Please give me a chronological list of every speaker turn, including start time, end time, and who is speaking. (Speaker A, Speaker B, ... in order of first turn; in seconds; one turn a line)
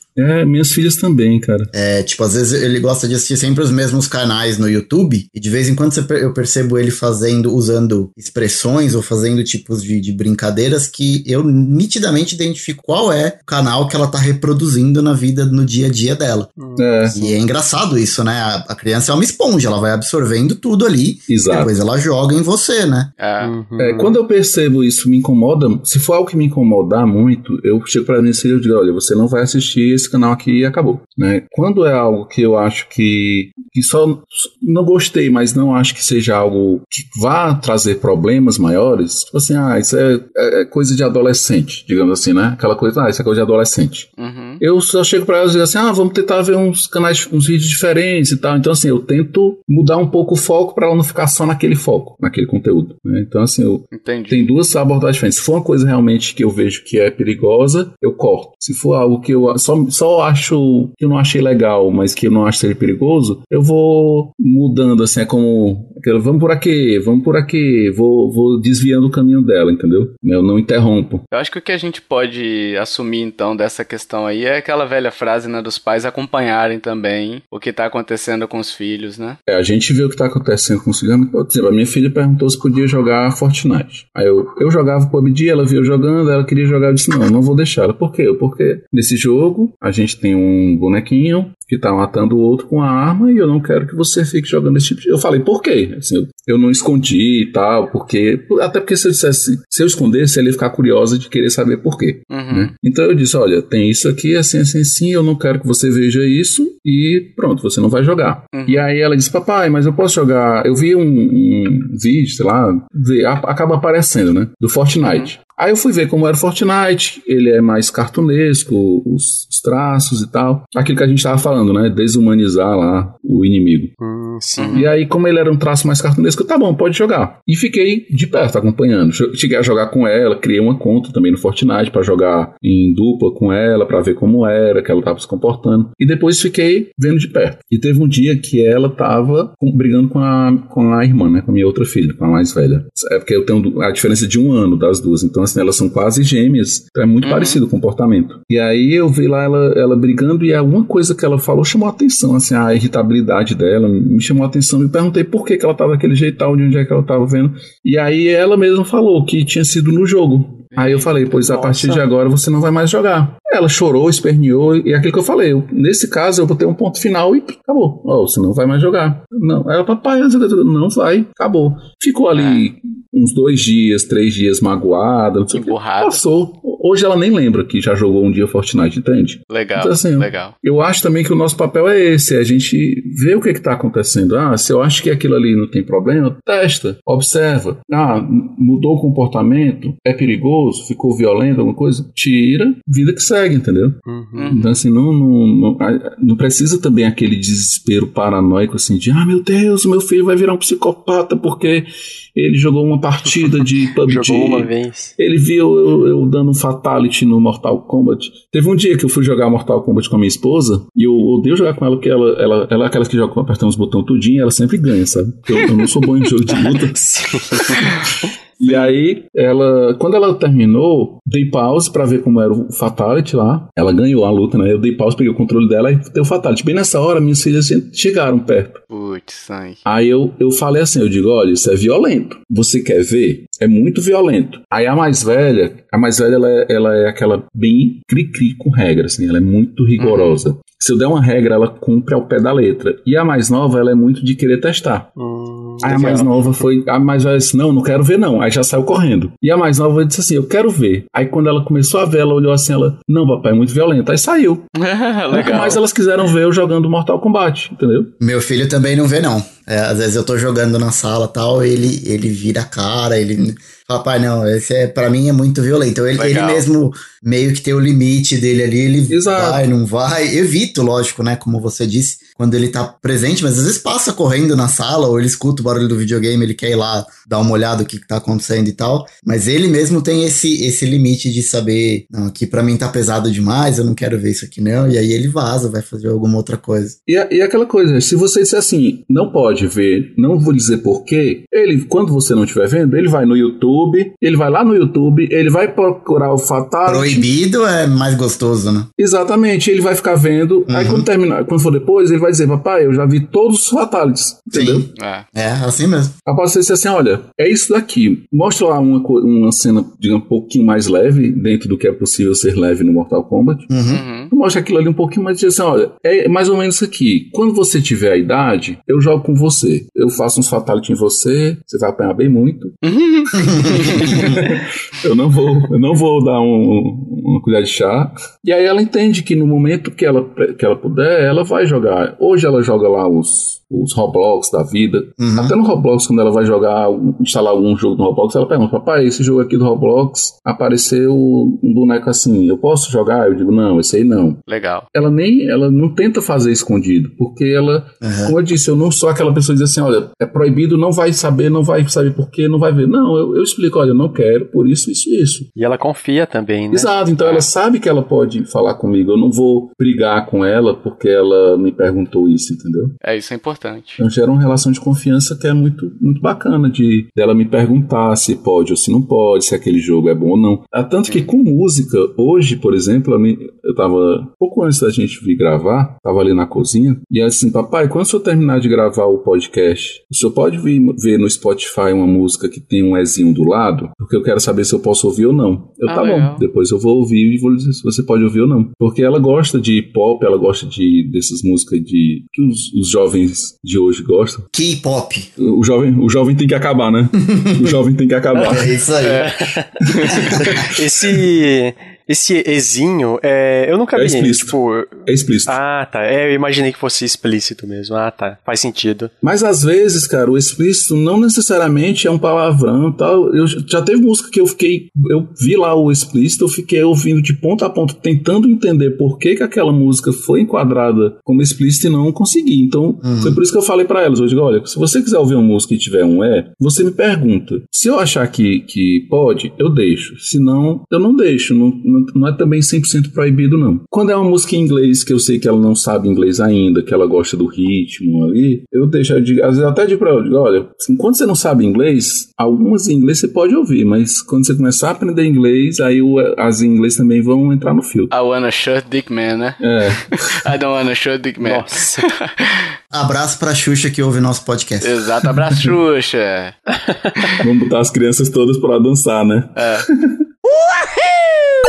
Speaker A: 0.1-1.7
Speaker B: 1.7-16.5
Speaker C: 16.6-17.3
Speaker A: 16.8-17.1
Speaker B: 17.1-23.1
Speaker A: 21.3-21.7
Speaker D: 23.2-23.5
Speaker C: 23.4-24.1
Speaker A: 23.8-71.2
Speaker D: 44.2-44.6
Speaker D: 53.9-54.5
Speaker D: 71.3-79.4
Speaker A: 79.5-123.9
Speaker D: 102.3-102.7
Speaker D: 108.5-108.8
Speaker D: 115.0-115.3
Speaker C: 124.0-124.9
Speaker D: 124.6-124.9
Speaker A: 124.7-217.9
Speaker D: 147.2-147.6
Speaker D: 160.7-162.0
Speaker D: 172.3-172.6
Speaker D: 175.5-176.2
Speaker D: 179.5-180.5
Speaker C: 194.1-194.6
Speaker D: 194.3-194.8
Speaker C: 204.1-205.1
Speaker C: 216.5-218.1
Speaker A: 218.6-228.8
Speaker D: 218.6-218.9
Speaker D: 228.9-229.8
Speaker A: 229.8-245.1
Speaker D: 240.0-240.4
Speaker C: 245.2-246.6
Speaker A: 245.8-254.7
Speaker D: 254.7-255.8
Speaker A: 255.3-258.1
Speaker C: 255.3-255.7
Speaker B: 258.2-286.9
Speaker D: 266.2-266.6
Speaker A: 269.1-269.7
Speaker A: 287.1-297.3
Speaker B: 296.9-298.9
Speaker A: 299.0-304.9
Speaker B: 300.7-301.1
Speaker B: 304.5-306.1
Speaker D: 304.9-305.2
Speaker A: 306.2-313.7
Speaker B: 313.7-314.0
Speaker D: 313.9-314.3
Speaker A: 314.3-322.8
Speaker D: 322.8-324.5
Speaker B: 323.4-324.1
Speaker A: 323.9-344.4
Speaker B: 335.2-335.5
Speaker D: 344.5-344.9
Speaker A: 344.9-355.5
Speaker B: 348.0-348.3
Speaker C: 355.6-356.9
Speaker A: 356.7-362.9
Speaker D: 357.2-357.5
Speaker D: 363.0-364.0
Speaker A: 364.0-394.5
Speaker D: 385.9-386.4
Speaker B: 394.5-395.3
Speaker A: 395.4-398.8
Speaker B: 397.3-397.7
Speaker B: 398.4-399.3
Speaker D: 399.0-399.3
Speaker C: 399.2-409.1
Speaker D: 399.9-400.4
Speaker A: 400.0-400.9
Speaker A: 403.9-405.6
Speaker A: 409.2-448.1
Speaker B: 423.0-423.4
Speaker D: 448.1-452.6
Speaker A: 449.6-450.4
Speaker C: 451.4-452.0
Speaker B: 452.9-455.0
Speaker D: 454.8-456.6
Speaker C: 456.8-457.3
Speaker A: 457.4-460.1
Speaker D: 459.6-459.9